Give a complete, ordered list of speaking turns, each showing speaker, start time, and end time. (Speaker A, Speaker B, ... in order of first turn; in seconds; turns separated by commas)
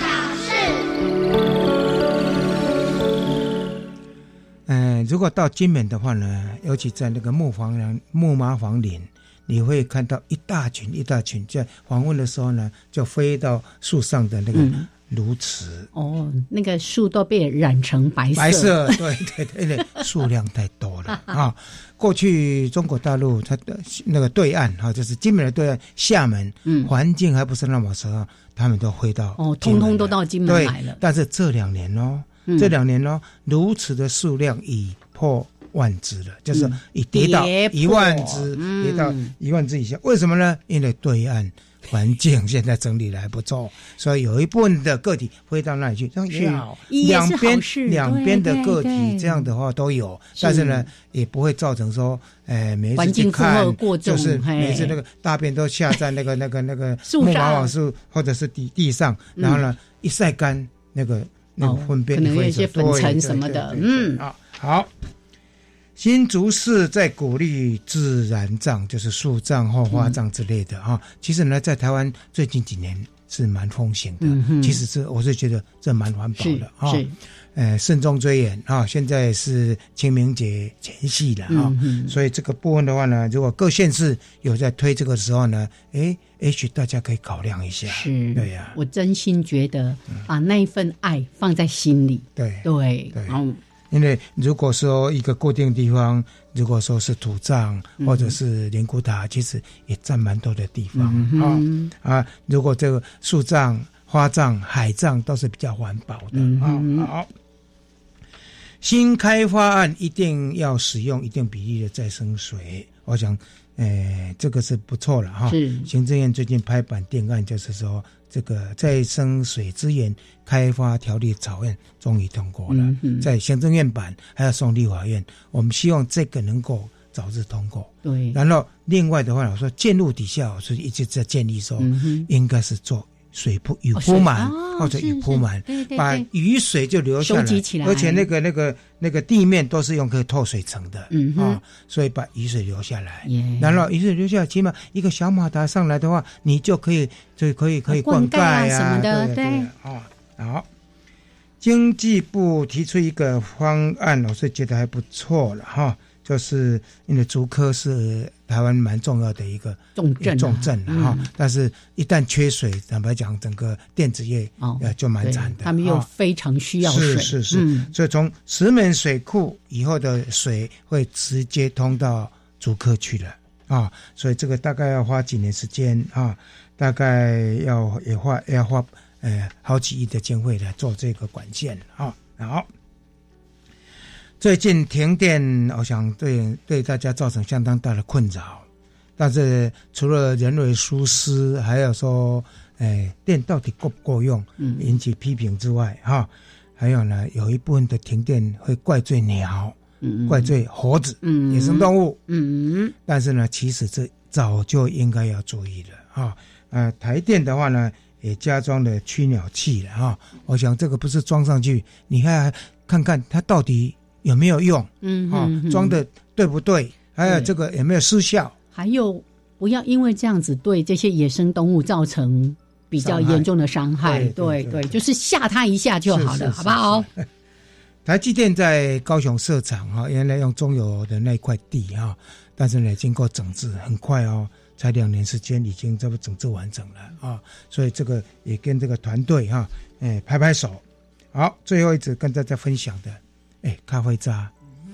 Speaker A: 4.7-15.9, Speaker B: 14.5-14.9, Speaker B: 15.9-19.0, Speaker A: 18.3-64.9, Speaker B: 26.6-26.9, Speaker B: 29.4-31.0, Speaker B: 36.5-39.3, Speaker B: 46.3-49.5, Speaker B: 50.4-50.9, Speaker B: 53.0-55.0, Speaker B: 57.0-57.7, Speaker B: 59.4-59.6, Speaker B: 61.6-64.2, Speaker A: 66.0-88.8, Speaker B: 69.9-70.2, Speaker B: 74.2-74.8, Speaker B: 76.4-77.1, Speaker B: 81.5-82.1, Speaker B: 87.9-93.6, Speaker A: 92.3-93.4, Speaker A: 93.9-107.3, Speaker B: 98.0-98.3, Speaker B: 100.9-101.9, Speaker B: 106.3-107.1, Speaker A: 108.8-150.7, Speaker B: 115.5-115.9, Speaker B: 122.7-123.3, Speaker B: 128.0-128.4, Speaker B: 131.8-132.3, Speaker B: 133.9-136.2, Speaker B: 137.2-138.3, Speaker B: 141.1-141.6, Speaker B: 143.2-143.8, Speaker B: 147.9-149.7, Speaker A: 151.6-166.1, Speaker B: 159.9-161.3, Speaker B: 164.6-167.9, Speaker A: 166.8-182.7, Speaker A: 184.4-202.2, Speaker B: 194.6-194.9, Speaker B: 200.0-200.5, Speaker B: 201.2-202.9, Speaker A: 203.0-218.5, Speaker B: 215.0-216.0, Speaker B: 217.2-217.5, Speaker B: 218.7-227.1, Speaker A: 223.0-223.5, Speaker A: 224.0-225.0, Speaker A: 226.1-227.2, Speaker A: 228.0-244.5